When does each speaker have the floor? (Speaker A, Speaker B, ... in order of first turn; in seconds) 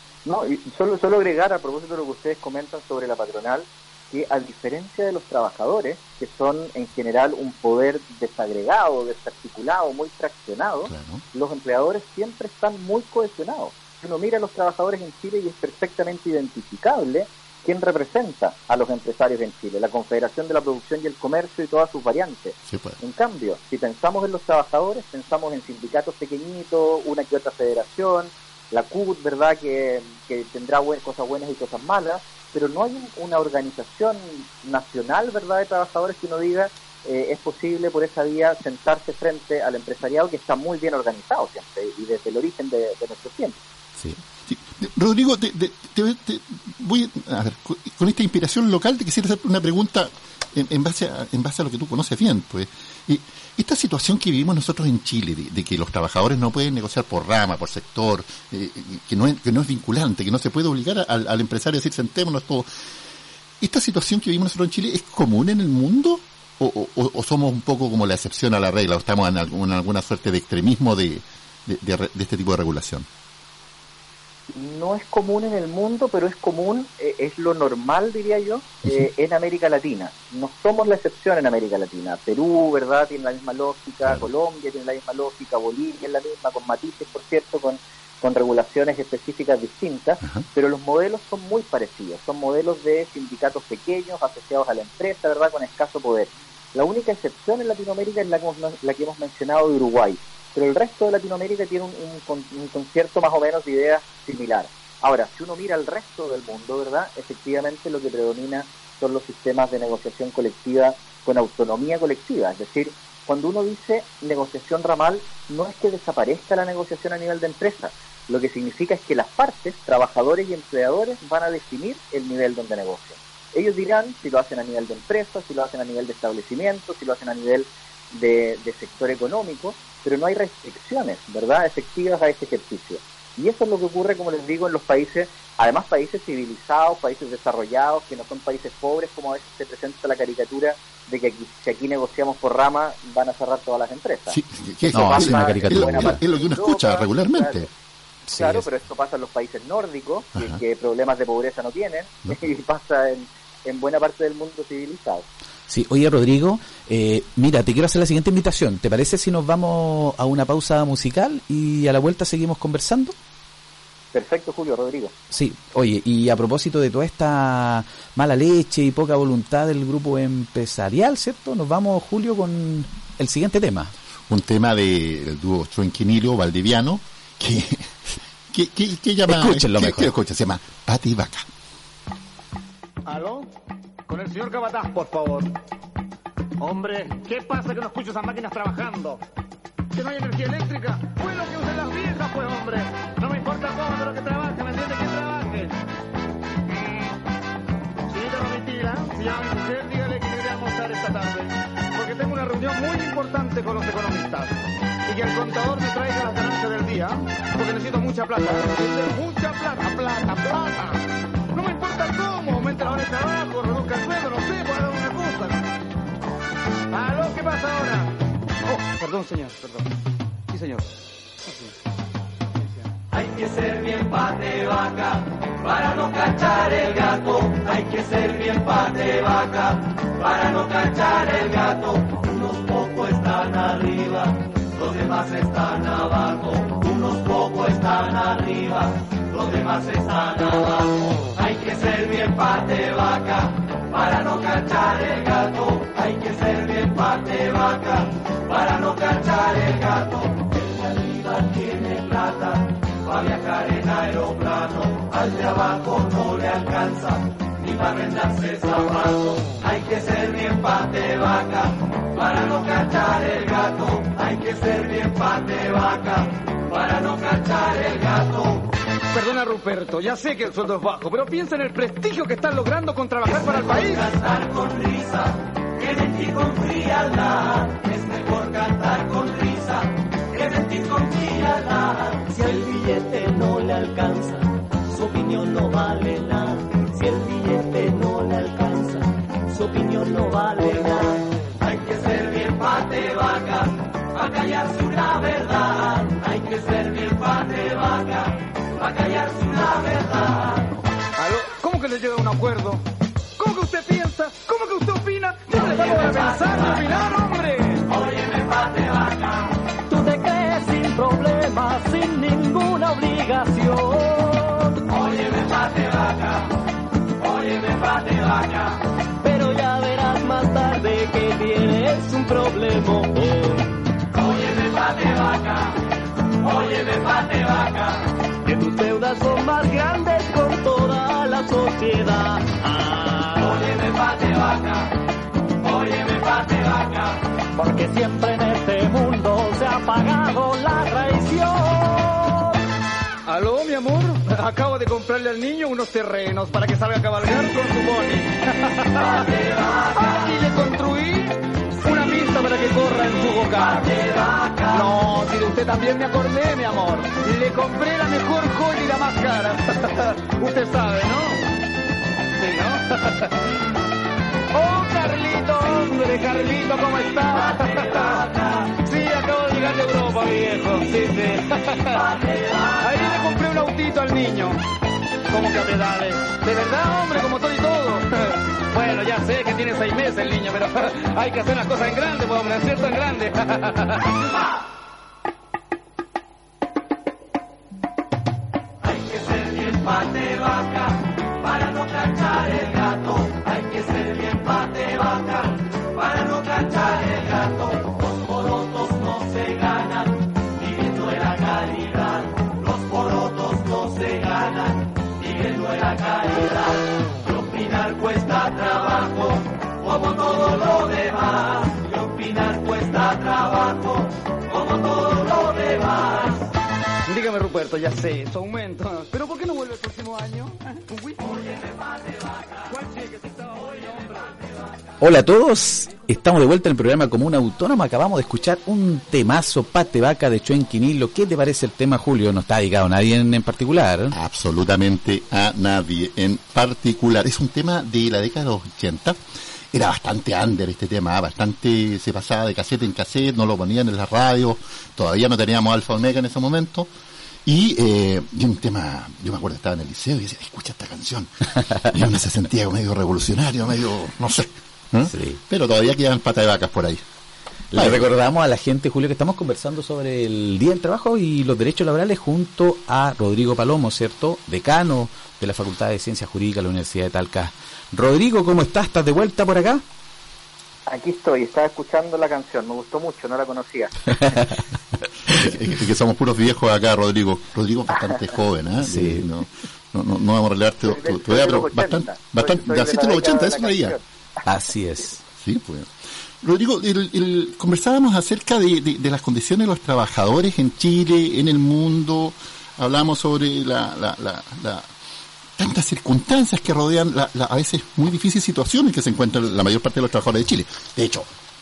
Speaker A: 0.2-43.6, 74.5-147.7, 148.3-155.2, 164.1-165.1, 470.9-473.9, 480.8-484.0
Speaker B: 10.8-11.2, 22.7-23.0, 44.0-62.7, 63.6-73.1, 144.3-147.7, 150.3-150.6, 174.3-181.5, 434.1-439.2, 439.7-446.9, 447.4-451.3, 451.8-457.0, 457.7-458.1, 475.3-483.9, 485.4-494.9, 495.6-501.3
Speaker C: 144.9-146.2, 148.3-148.6, 155.7-163.1, 165.3-173.9, 179.3-180.1, 425.0-434.1, 455.1-455.4, 457.7-469.8, 478.8-479.2, 484.4-485.2
Speaker D: 183.1-183.5, 184.1-185.5, 186.6-189.2, 189.9-195.8, 196.7-197.2, 198.1-211.0, 211.5-215.6, 216.9-218.1, 218.7-219.9, 220.5-220.9, 221.4-221.7, 269.1-274.1, 301.2-302.8, 303.4-307.9, 343.2-354.1, 354.7-361.5, 362.4-363.3, 364.5-372.2, 372.8-374.6, 375.3-384.1, 417.1-421.4, 422.7-424.6
Speaker E: 223.1-268.7, 273.4-300.7, 305.7-306.7, 307.9-309.5, 314.9-316.5, 317.2-318.7, 324.1-325.8, 326.4-329.0, 333.4-334.9, 335.6-337.1, 349.0-350.2, 353.7-354.8, 367.5-368.7, 371.9-373.3, 388.8-416.4
Speaker F: 309.9-314.8, 319.2-323.6, 328.5-333.6, 337.5-342.5